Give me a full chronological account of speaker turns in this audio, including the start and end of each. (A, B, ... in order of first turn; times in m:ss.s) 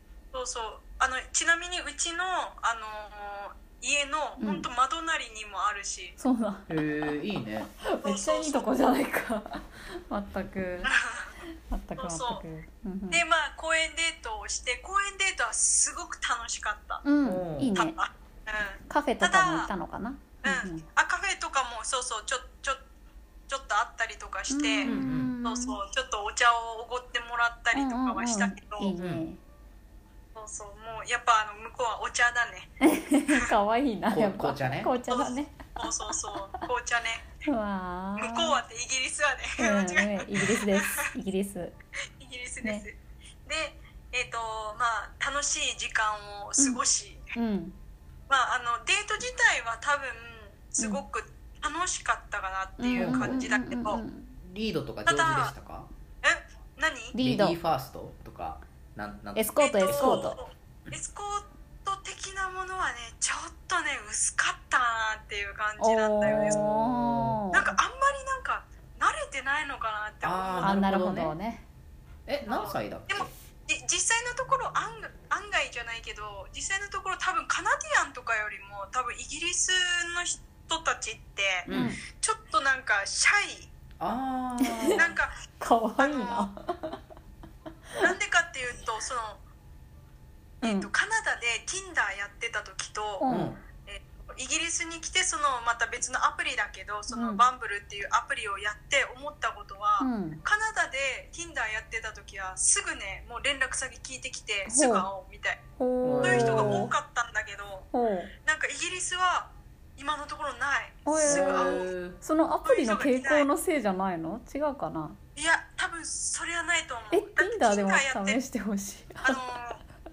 0:00.3-0:06.2 A
0:04.4-0:04.7 B
0:06.2-0:06.7 B
0:06.7-0:07.7 C
0:07.8-0:10.9 B
0:08.0-0:08.7 A
0:10.8-0:11.3 A
0:11.7-0:13.2 B
0:12.0-0:12.4 A
0:13.1-0:17.0 A
0:17.0-0:18.0 B
0:17.2-0:17.7 C
0:17.7-0:19.7 A
0:18.9-0:20.8 B
0:20.4-0:22.8 A
0:23.5-0:28.9 A
0:24.5-0:25.8 B
0:24.8-0:25.3 C
0:27.7-0:29.4 B
0:29.0-0:29.2 C
0:30.3-0:32.7 A
0:32.8-0:35.8 B
0:34.1-0:35.0 C
0:35.1-0:37.3 A
0:37.4-0:38.6 B
0:38.2-0:40.8 A
0:39.6-0:41.7 B
0:42.2-0:47.3 A
0:47.3-0:47.8 B
0:48.3-0:54.0 A
0:52.8-0:54.3 B
0:52.9-0:53.4 C
0:54.4-0:55.9 C
0:55.0-0:55.5 A
0:56.2-0:57.2 A
0:57.1-0:57.6 B
0:57.2-1:00.3 C
0:59.4-1:00.4 B
0:59.6-1:06.6 A
1:05.8-1:07.7 B
1:06.2-1:07.4 C
1:07.5-1:10.8 A
1:10.2-1:11.3 C
1:10.6-1:11.6 B
1:12.3-1:13.3 C
1:12.4-1:23.7 A
1:21.6-1:22.0 C
1:21.7-1:22.0 B
1:24.0-1:25.1 C
1:24.7-1:25.1 B
1:25.0-1:25.4 A
1:25.6-1:27.0 B
1:26.0-1:26.5 A
1:28.0-1:29.4 A
1:30.6-1:30.9 B
1:30.6-1:33.3 A
1:33.2-1:33.6 B
1:33.3-1:33.6 C
1:33.8-1:45.6 A
1:37.1-1:37.4 B
1:40.0-1:40.4 B
1:44.7-1:45.1 B
1:45.8-1:46.9 B
1:46.0-1:46.9 C
1:46.2-1:47.9 A
1:47.9-1:48.3 B
1:48.4-1:51.9 A
1:51.0-1:55.2 B
1:51.2-1:52.2 C
1:52.6-1:53.5 A
1:55.4-1:58.4 A
1:57.1-1:59.4 B
1:59.2-1:59.8 A